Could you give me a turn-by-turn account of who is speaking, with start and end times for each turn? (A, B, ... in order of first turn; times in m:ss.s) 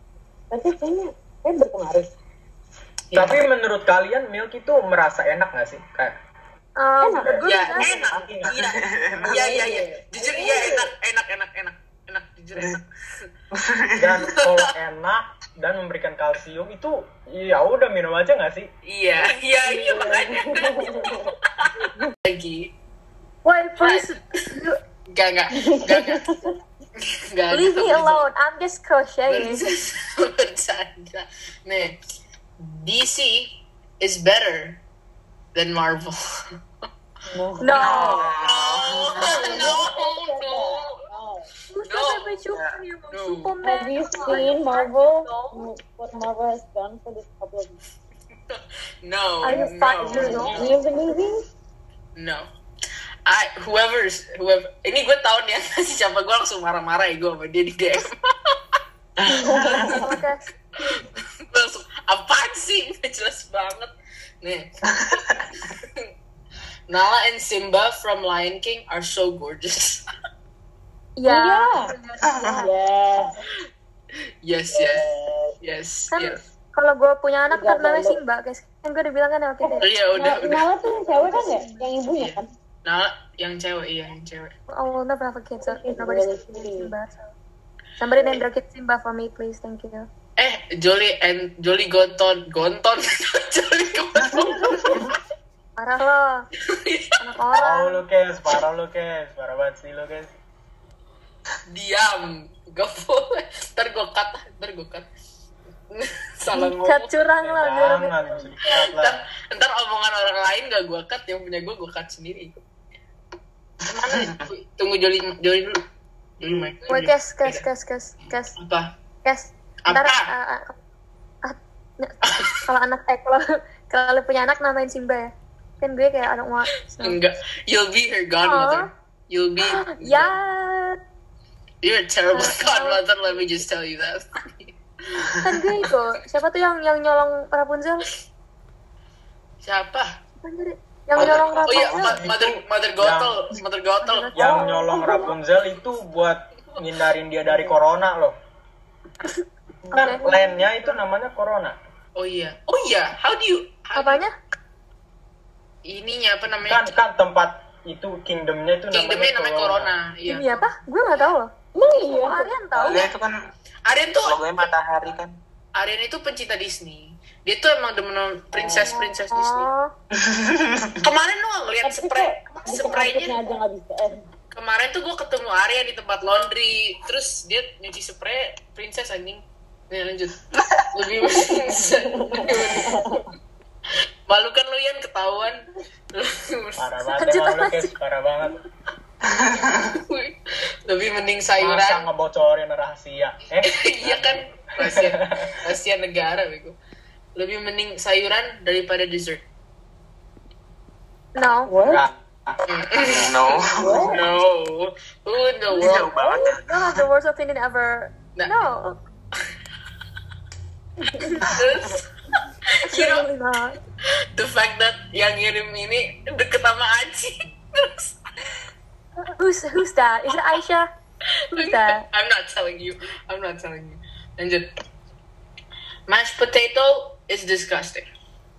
0:00.5-0:02.1 A
0:03.1-0:03.4 B
0:03.1-0:06.2 C
0:06.8-0:08.0 D
0:07.0-0:08.5 A
0:07.4-0:13.3 B
0:08.1-0:08.6 C
0:08.6-0:09.5 E
0:09.2-0:10.9 A
0:13.6-0:14.3 E
0:14.0-0:18.7 C
0:14.4-0:14.7 B
0:18.8-0:22.7 B
0:19.6-0:21.3 A
0:23.4-0:24.8 D
0:23.8-0:24.1 B
0:25.1-0:26.4 B
0:25.5-0:26.5 A
0:27.0-0:28.3 B
0:27.5-0:29.6 D
0:29.3-0:32.0 B
0:32.6-0:34.8 B
0:35.5-0:36.2 B
0:37.3-0:38.2 A
0:37.6-0:38.3 D
0:37.7-0:39.8 E
0:38.2-0:41.0 B
0:39.2-0:41.5 A
0:41.7-0:45.7 D
0:41.8-0:42.4 B
0:43.1-0:43.6 B
0:43.6-0:47.8 A
0:48.5-0:50.7 B
0:49.4-0:50.6 D
0:49.5-0:51.4 A
0:52.2-0:52.5 B
0:53.2-0:58.6 B
0:59.2-1:00.0 E
0:59.3-1:00.1 A
0:59.7-1:00.0 B
0:59.9-1:00.5 D
1:00.8-1:05.2 B
1:04.9-1:05.4 E
1:06.9-1:10.0 B
1:11.2-1:12.7 D
1:11.2-1:11.9 A
1:12.2-1:12.6 E
1:12.4-1:13.3 A
1:14.4-1:15.1 B
1:14.8-1:15.3 A
1:15.6-1:16.4 B
1:16.1-1:19.9 D
1:17.5-1:18.2 A
1:19.6-1:22.5 A
1:19.8-1:20.7 B
1:21.2-1:21.9 D
1:22.2-1:24.5 B
1:24.7-1:27.3 D
1:25.6-1:26.9 A
1:28.0-1:30.1 D
1:30.4-1:35.0 B
1:34.6-1:34.9 A
1:35.8-1:36.5 D
1:36.6-1:37.1 B
1:37.2-1:38.0 D
1:37.5-1:40.3 C
1:41.7-1:45.1 B
1:45.9-1:47.1 B
1:46.5-1:48.8 D
1:47.4-1:49.2 C
1:48.7-1:52.6 B
1:53.9-1:55.8 B
1:54.0-1:54.4 E
1:56.4-1:57.6 B
1:56.9-1:58.5 D
1:58.6-1:58.9 B
1:59.2-2:00.8 D
1:59.8-2:00.3 B
2:01.4-2:07.2 D
2:02.3-2:02.6 B
2:07.0-2:10.4 B
2:08.4-2:08.9 D
2:09.6-2:11.0 D
2:11.8-2:15.3 B
2:12.3-2:13.5 D
2:15.4-2:18.1 D
2:19.6-2:20.1 B
2:20.4-2:22.2 D
2:21.2-2:21.8 E
2:21.2-2:24.3 B
2:21.9-2:23.4 C
2:24.0-2:25.3 D
2:24.3-2:28.3 C
2:24.4-2:25.3 A
2:29.9-2:30.2 D
2:29.9-2:31.8 C
2:30.0-2:30.6 A
2:32.2-2:34.2 B
2:34.0-2:34.3 D
2:35.8-2:36.9 B
2:36.6-2:40.0 C
2:38.9-2:40.7 B
2:40.2-2:43.1 D
2:41.7-2:42.6 A
2:42.7-2:43.4 E
2:43.8-2:44.7 B
2:44.2-2:45.4 E
2:45.7-2:49.7 B
2:48.5-2:49.1 A
2:49.3-2:49.9 D
2:50.2-2:51.0 E
2:51.0-2:53.4 B
2:51.8-2:54.2 A
2:54.5-3:03.2 B
3:01.7-3:03.3 A
3:04.3-3:06.9 B
3:06.8-3:08.6 C
3:07.2-3:07.9 D
3:09.4-3:09.9 E
3:10.0-3:10.3 B
3:10.8-3:12.1 B
3:11.6-3:15.4 C
3:13.6-3:16.8 B
3:17.4-3:19.4 B
3:21.4-3:21.7 D
3:21.7-3:22.1 A
3:21.8-3:22.6 C
3:22.7-3:26.2 B
3:23.0-3:24.1 E
3:23.8-3:24.2 A
3:25.8-3:27.0 E
3:25.8-3:29.0 D
3:28.4-3:28.6 B
3:31.2-3:31.4 D
3:31.4-3:32.1 B
3:32.8-3:33.8 D
3:32.8-3:33.2 B
3:34.3-3:38.2 B
3:39.2-3:40.9 D
3:41.5-3:42.0 D
3:41.5-3:44.7 B
3:46.1-3:48.1 B